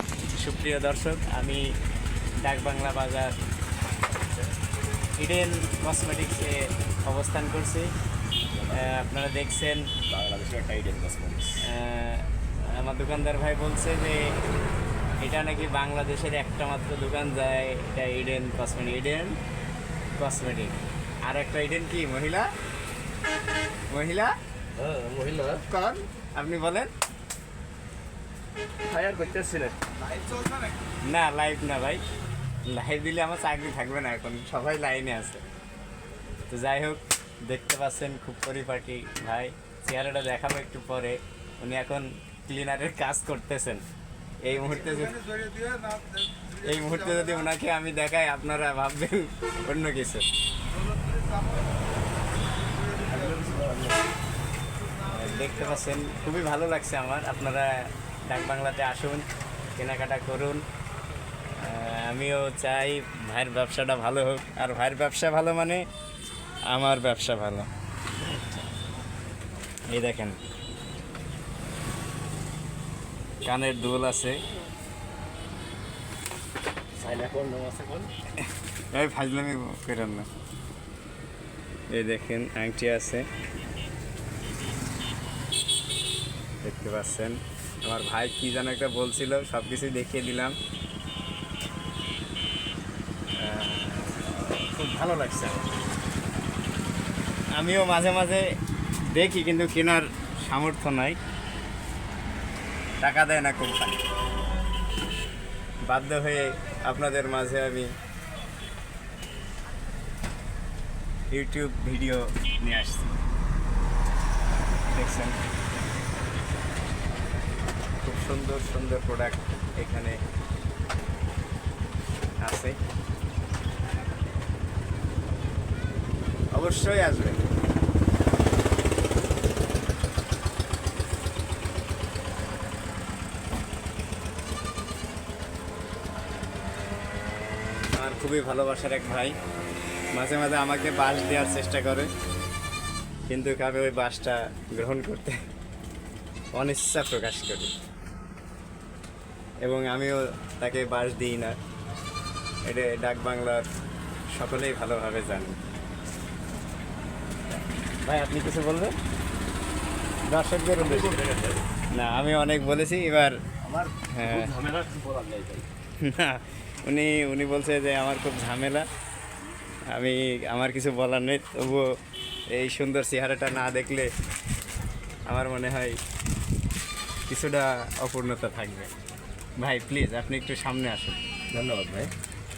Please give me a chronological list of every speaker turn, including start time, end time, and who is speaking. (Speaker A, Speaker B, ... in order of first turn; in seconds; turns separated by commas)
Speaker A: 0.4-1.7, Speaker A: 2.4-3.4, Speaker A: 5.2-7.9, Speaker A: 8.7-9.9, Speaker B: 10.1-11.6, Speaker A: 11.6-14.4, Speaker A: 15.2-19.4, Speaker A: 20.1-22.5, Speaker A: 23.9-24.3, Speaker B: 24.8-25.6, Speaker A: 25.6-26.9, Speaker B: 28.9-29.8, Speaker A: 31.0-32.0, Speaker A: 32.6-35.4, Speaker A: 36.5-43.8, Speaker A: 44.4-45.2, Speaker A: 46.5-50.3, Speaker B: 52.9-54.0, Speaker A: 55.0-59.2, Speaker A: 59.8-60.6, Speaker A: 61.5-65.8, Speaker A: 66.7-67.7, Speaker A: 69.9-70.4, Speaker A: 73.4-74.4, Speaker B: 77.0-78.1, Speaker A: 78.4-80.3, Speaker A: 81.9-83.3, Speaker A: 86.6-90.5, Speaker A: 93.4-95.7, Speaker A: 97.5-98.5, Speaker A: 99.1-101.2, Speaker A: 103.0-104.0, Speaker A: 105.9-107.9, Speaker A: 111.3-113.2, Speaker A: 114.9-115.4, Speaker A: 118.0-120.2, Speaker A: 122.4-122.8, Speaker A: 126.5-127.4, Speaker A: 138.0-139.3, Speaker A: 140.1-142.1, Speaker A: 143.3-145.3, Speaker A: 146.5-147.7, Speaker A: 149.6-151.6, Speaker A: 152.7-153.7, Speaker A: 154.3-155.6, Speaker A: 158.0-158.9, Speaker A: 160.3-161.2, Speaker B: 160.8-161.6, Speaker A: 161.9-163.4, Speaker B: 163.6-165.7, Speaker A: 164.1-164.5, Speaker A: 166.0-168.8, Speaker A: 169.9-171.8, Speaker A: 172.5-174.1, Speaker A: 175.3-176.0, Speaker A: 177.3-178.9, Speaker A: 179.6-181.2, Speaker B: 181.5-182.1